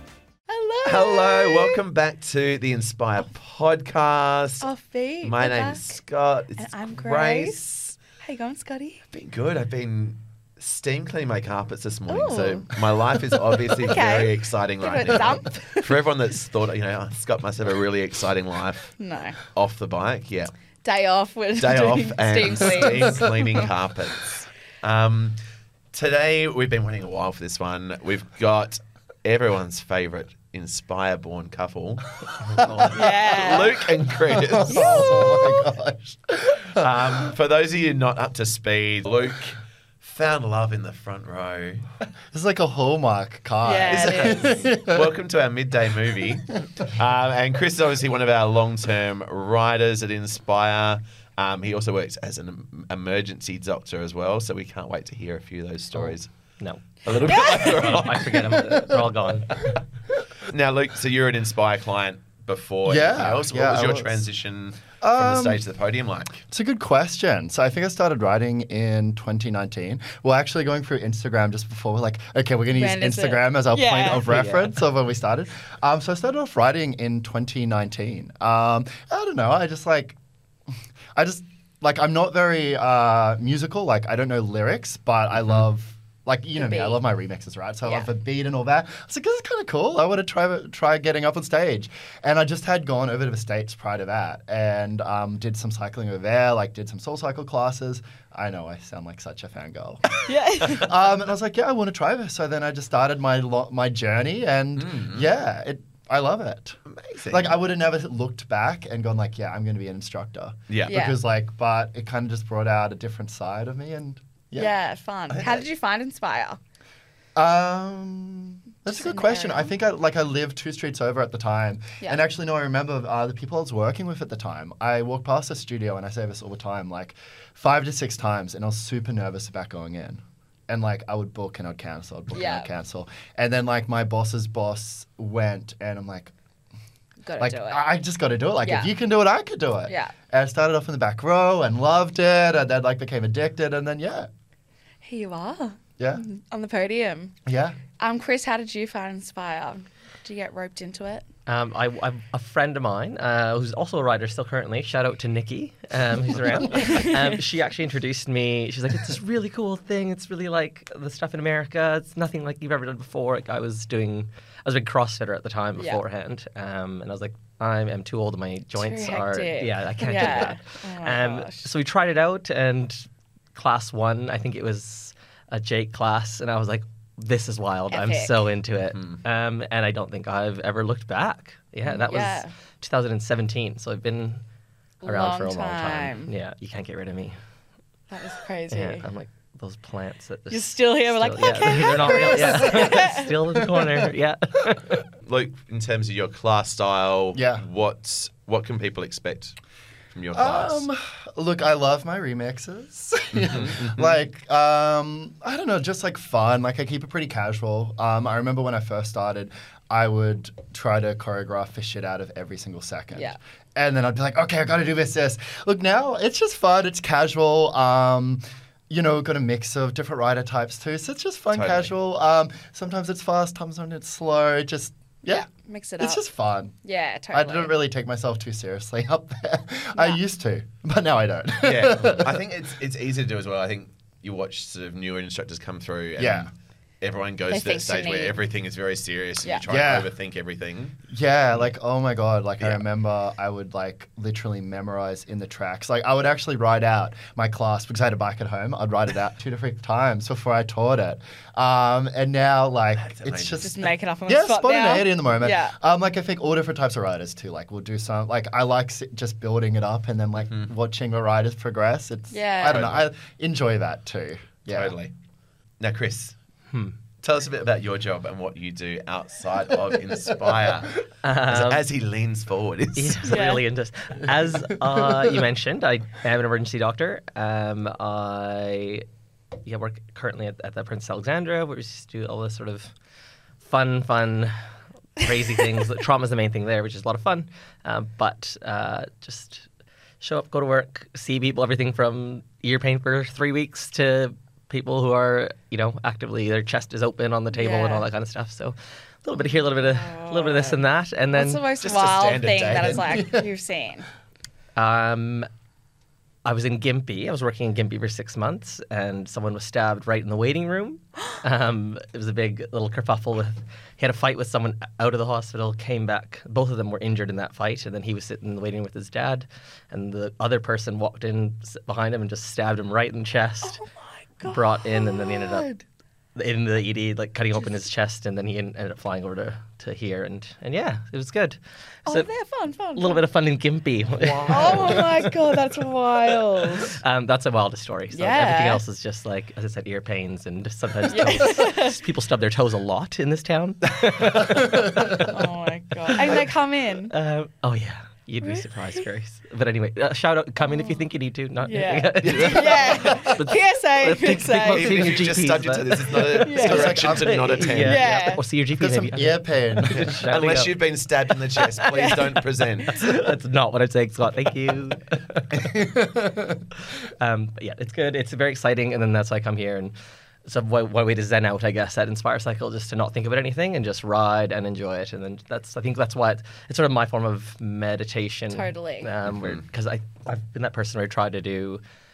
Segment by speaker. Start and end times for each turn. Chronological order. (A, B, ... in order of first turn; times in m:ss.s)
0:00.5-0:01.8 A
0:00.8-0:04.7 B
0:04.6-0:06.0 A
0:05.2-0:08.0 B
0:06.6-0:09.0 A
0:09.1-0:18.9 B
0:12.1-0:12.8 A
0:13.6-0:15.9 A
0:19.0-0:19.4 A
0:19.4-0:20.5 B
0:20.8-0:23.6 A
0:21.6-0:25.4 B
0:25.9-0:35.1 B
0:32.5-0:32.9 C
0:32.5-0:33.0 D
0:32.8-0:33.9 A
0:34.2-0:37.3 C
0:34.7-0:35.7 A
0:36.7-0:41.8 B
0:42.3-0:45.1 C
0:43.6-0:44.6 A
0:44.8-0:56.3 B
0:56.6-0:59.8 D
0:57.0-0:58.6 B
0:58.5-0:59.1 C
1:00.5-1:06.4 B
1:02.8-1:04.2 C
1:05.0-1:05.6 C
1:06.5-1:20.2 C
1:12.7-1:14.2 A
1:14.2-1:14.7 D
1:21.1-1:46.8 C
1:26.5-1:27.0 A
1:40.1-1:40.9 A
1:44.8-1:45.2 B
1:46.8-1:47.6 B
1:47.3-1:54.7 C
1:50.7-1:51.0 B
1:50.9-1:51.2 A
1:54.6-1:56.6 A
1:55.3-1:55.6 B
1:57.3-2:16.3 C
1:58.9-1:59.7 A
2:12.3-2:12.7 A
2:17.2-2:17.8 A
2:17.4-2:24.3 C
2:18.6-2:18.9 A
2:19.9-2:20.1 A
2:25.0-2:27.3 A
2:26.0-2:26.2 C
2:27.4-2:27.8 C
2:28.0-2:31.2 A
2:31.5-3:04.4 D
2:36.7-2:37.4 A
2:48.8-2:51.6 A
2:57.9-2:58.4 A
2:58.9-2:59.2 B
3:01.8-3:02.5 A
3:05.0-3:06.3 A
3:05.0-3:07.3 D
3:08.1-3:09.0 A
3:08.7-3:15.0 D
3:10.5-3:13.3 A
3:12.0-3:12.9 C
3:13.5-3:14.0 C
3:15.2-3:19.6 B
3:17.3-3:17.6 C
3:20.1-3:20.9 B
3:20.3-3:46.7 C
3:23.3-3:24.1 B
3:41.5-3:41.9 B
3:45.3-3:46.2 A
3:46.8-3:47.8 A
3:47.3-3:52.4 C
3:50.0-3:50.2 A
3:51.6-3:56.5 B
3:56.2-3:56.5 C
3:57.0-4:01.0 B
3:57.5-3:58.4 A
3:59.7-4:00.1 C
4:01.1-4:13.7 C
4:13.0-4:13.8 B
4:13.6-4:15.7 A
4:14.3-4:24.9 C
4:22.3-4:22.9 A
4:22.7-4:23.0 B
4:24.7-4:25.1 B
4:25.8-4:26.3 B
4:27.2-4:33.4 B
4:31.2-4:31.8 D
4:33.0-4:39.0 D
4:33.2-4:33.6 A
4:39.6-4:42.9 D
4:43.6-4:44.5 D
4:45.2-4:49.6 D
4:50.2-5:01.7 D
4:57.5-4:58.0 A
4:59.7-5:04.1 A
5:01.8-5:03.2 B
5:02.6-5:03.4 C
5:04.8-5:05.5 D
5:06.4-5:23.8 D
5:23.6-5:25.8 A
5:24.4-5:25.7 D
5:26.4-5:32.3 D
5:32.0-5:33.3 A
5:33.0-5:35.3 D
5:34.4-5:37.0 A
5:36.8-5:45.4 D
5:38.1-5:38.8 A
5:41.1-5:42.0 A
5:44.6-5:45.2 C
5:45.2-5:47.1 A
5:46.1-5:46.5 D
5:47.1-6:00.8 D
5:48.4-5:48.7 A
5:50.6-5:51.0 A
5:51.6-5:55.2 A
5:52.2-5:53.2 B
5:53.0-5:53.4 C
5:54.7-5:58.0 B
5:56.3-5:56.9 A
5:56.5-5:57.9 C
5:57.8-5:58.4 A
5:58.8-6:00.2 C
6:00.0-6:03.0 B
6:01.6-6:03.2 A
6:02.9-6:05.7 D
6:05.5-6:06.6 C
6:07.0-6:09.9 D
6:10.4-6:21.8 D
6:18.5-6:19.1 A